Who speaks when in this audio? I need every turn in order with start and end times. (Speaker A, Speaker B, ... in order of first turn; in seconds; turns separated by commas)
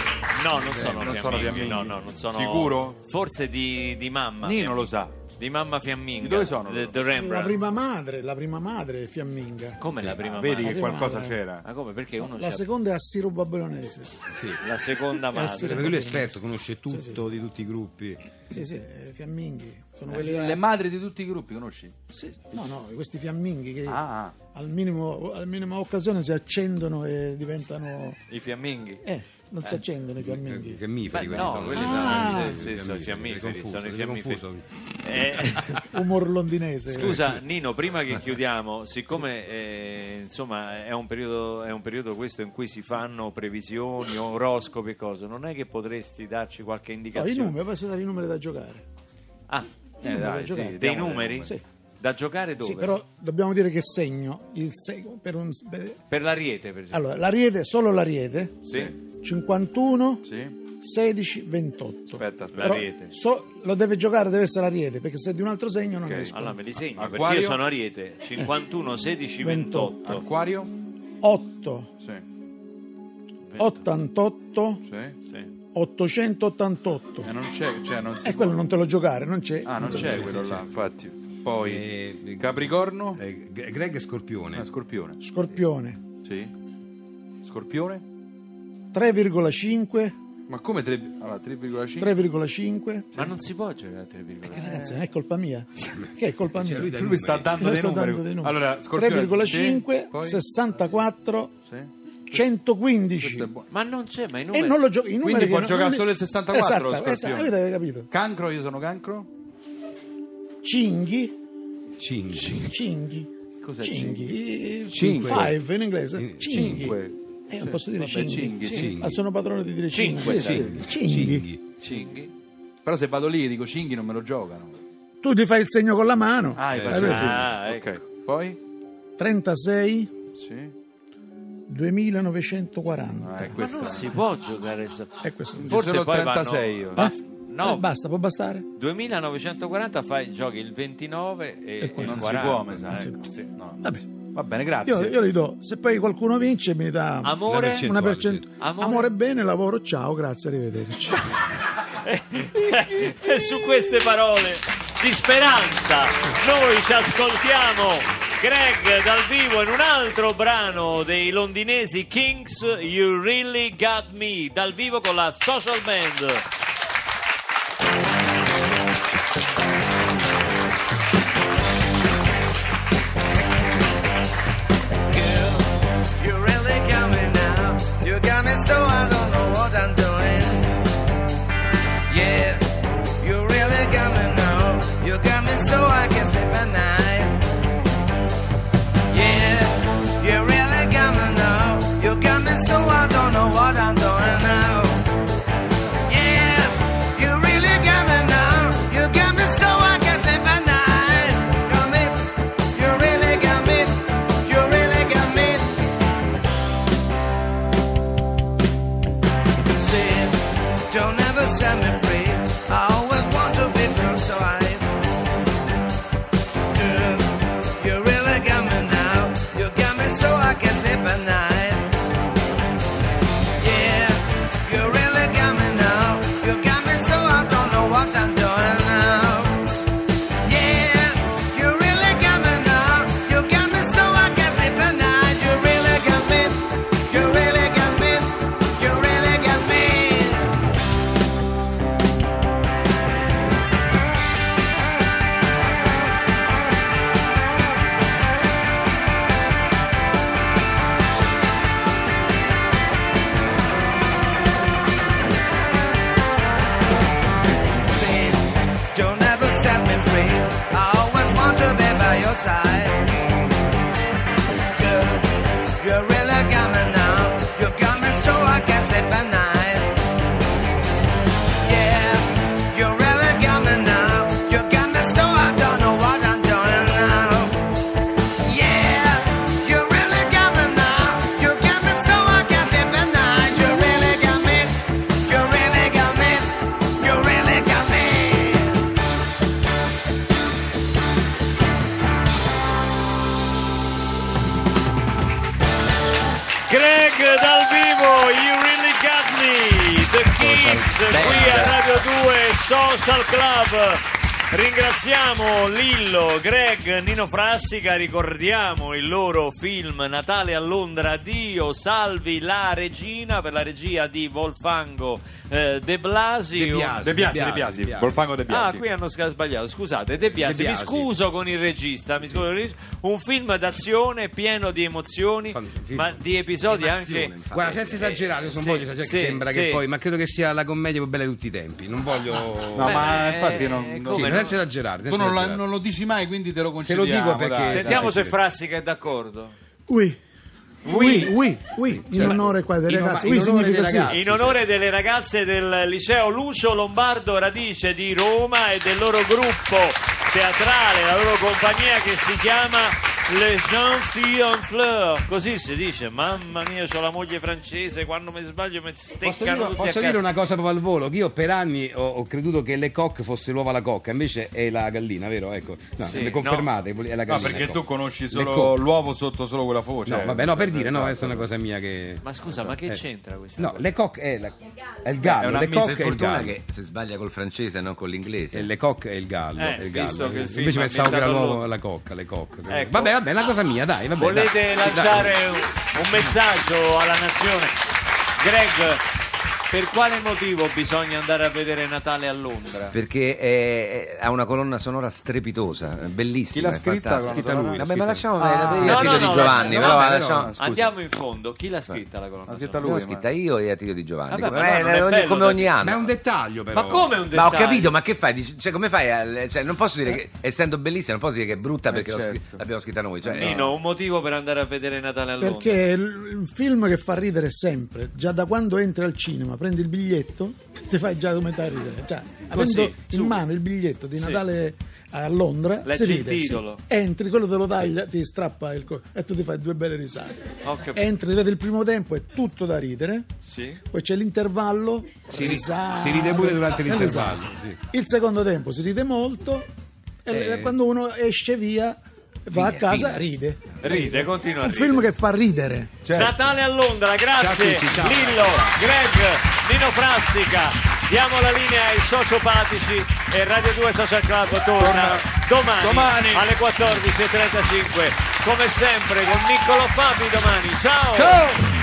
Speaker A: 0.3-7.6, Speaker B: 0.7-3.0, Speaker B: 4.4-5.1, Speaker B: 6.2-7.0, Speaker C: 7.1-9.8, Speaker A: 9.8-11.0, Speaker B: 10.2-11.6, Speaker C: 10.6-11.4, Speaker A: 11.6-12.6, Speaker C: 12.2-14.2, Speaker D: 14.3-14.6, Speaker A: 14.6-15.9, Speaker C: 15.3-17.2, Speaker D: 15.6-18.3, Speaker C: 18.5-20.6, Speaker B: 20.1-21.9, Speaker C: 22.1-28.2, Speaker B: 23.9-24.4, Speaker A: 28.3-29.0, Speaker C: 29.0-30.8, Speaker D: 30.2-34.6, Speaker A: 31.1-34.4, Speaker C: 31.4-32.6, Speaker A: 35.0-35.9, Speaker C: 35.8-37.4, Speaker A: 36.9-47.5, Speaker C: 47.1-48.8, Speaker C: 50.0-51.6, Speaker B: 50.0-51.5, Speaker A: 50.8-53.0, Speaker C: 52.6-56.0, Speaker A: 56.1-57.1, Speaker C: 56.9-66.6, Speaker B: 58.6-59.0, Speaker B: 60.2-60.5, Speaker B: 62.1-62.9, Speaker A: 62.5-63.1, Speaker B: 66.0-66.3, Speaker A: 66.3-70.2, Speaker B: 66.9-67.6, Speaker C: 69.4-70.2, Speaker B: 70.0-70.7, Speaker C: 71.2-71.9, Speaker A: 73.5-73.8, Speaker C: 73.6-74.8, Speaker B: 74.8-75.1, Speaker C: 75.7-77.3, Speaker B: 77.2-78.6, Speaker C: 78.2-80.4, Speaker B: 79.6-83.2, Speaker D: 79.9-80.7, Speaker D: 81.5-84.7, Speaker B: 84.5-85.2, Speaker C: 85.2-86.0, Speaker B: 86.2-86.5, Speaker B: 87.4-88.0, Speaker C: 88.9-90.2, Speaker B: 90.5-92.1, Speaker C: 92.0-93.1, Speaker A: 93.1-94.8, Speaker C: 94.5-97.0, Speaker D: 96.5-97.6, Speaker B: 96.9-100.4, Speaker C: 97.5-101.5, Speaker B: 101.7-102.4, Speaker C: 102.3-103.5, Speaker B: 103.2-103.7, Speaker A: 103.7-104.8, Speaker C: 104.5-108.1, Speaker B: 105.2-107.5, Speaker B: 108.1-109.3, Speaker C: 110.6-111.3, Speaker D: 112.0-112.6, Speaker C: 112.5-121.5, Speaker B: 113.6-114.4, Speaker B: 114.9-115.6, Speaker D: 114.9-115.6, Speaker D: 116.2-116.9, Speaker B: 116.5-119.0, Speaker A: 118.6-118.9, Speaker D: 118.7-119.2, Speaker A: 119.9-120.8, Speaker B: 120.2-120.6, Speaker D: 120.4-121.6, Speaker A: 121.8-122.3, Speaker B: 121.8-122.1, Speaker B: 122.8-124.7, Speaker C: 125.2-127.4, Speaker B: 126.5-128.6, Speaker A: 126.8-128.0, Speaker C: 129.2-130.1, Speaker B: 130.3-130.7, Speaker C: 131.7-133.6, Speaker B: 133.2-134.1, Speaker A: 133.5-137.8, Speaker C: 135.2-135.8, Speaker B: 135.6-137.1, Speaker C: 136.9-138.7, Speaker A: 138.7-143.1, Speaker C: 141.8-143.3, Speaker B: 142.0-145.2, Speaker C: 143.8-144.1, Speaker C: 144.8-151.2, Speaker A: 147.2-148.0, Speaker D: 147.5-148.5, Speaker A: 148.6-149.1, Speaker A: 152.0-166.4, Speaker E: 175.1-180.9, Speaker E: 182.1-187.4, Speaker E: 189.1-195.1, Speaker E: 196.1-205.8, Speaker E: 209.7-214.9, Speaker E: 216.7-221.9, Speaker E: 223.6-229.7, Speaker E: 230.4-240.5, Speaker E: 257.9-263.1, Speaker E: 264.5-270.0, Speaker E: 271.6-277.6, Speaker E: 278.4-288.8, Speaker A: 296.7-317.0, Speaker F: 300.4-301.8, Speaker D: 316.5-318.2, Speaker B: 317.0-318.8, Speaker A: 318.5-329.8, Speaker D: 320.4-321.1, Speaker D: 325.5-326.2, Speaker D: 326.7-333.5, Speaker F: 326.8-328.1, Speaker B: 332.7-334.5, Speaker A: 332.8-334.6, Speaker D: 334.1-335.7, Speaker B: 335.1-338.3, Speaker D: 336.8-338.4, Speaker A: 337.7-339.5, Speaker C: 339.9-340.2, Speaker A: 340.8-341.4, Speaker C: 340.8-344.1, Speaker D: 342.1-344.6, Speaker A: 344.1-360.2, Speaker D: 359.2-368.8, Speaker A: 366.0-366.7, Speaker B: 367.3-371.5, Speaker D: 370.0-373.0, Speaker A: 372.2-373.8, Speaker D: 373.6-376.6, Speaker B: 375.2-376.3, Speaker F: 375.8-378.7, Speaker D: 378.5-385.4, Speaker A: 379.6-381.7, Speaker A: 382.7-383.1, Speaker A: 384.2-387.8, Speaker A: 388.4-389.0, Speaker A: 389.7-393.0, Speaker F: 392.9-400.9, Speaker B: 396.5-399.1, Speaker D: 397.2-400.5, Speaker A: 398.8-402.8, Speaker B: 399.8-400.8, Speaker B: 402.5-403.2, Speaker F: 402.8-406.1, Speaker A: 404.3-405.7, Speaker D: 405.7-407.2, Speaker A: 406.7-407.9, Speaker F: 407.3-413.7, Speaker B: 411.9-412.6, Speaker B: 413.2-413.7, Speaker A: 413.3-415.8, Speaker C: 415.4-433.3, Speaker A: 422.5-423.4, Speaker A: 424.2-424.4, Speaker A: 425.8-426.8, Speaker A: 430.6-431.1, Speaker A: 433.4-433.8, Speaker C: 433.9-439.7, Speaker D: 435.3-437.8, Speaker C: 440.2-446.0, Speaker D: 440.3-440.7, Speaker F: 442.6-443.2, Speaker A: 443.8-445.1, Speaker B: 446.0-446.3, Speaker A: 446.1-461.5, Speaker D: 447.3-448.8, Speaker B: 454.8-456.5, Speaker B: 461.2-461.5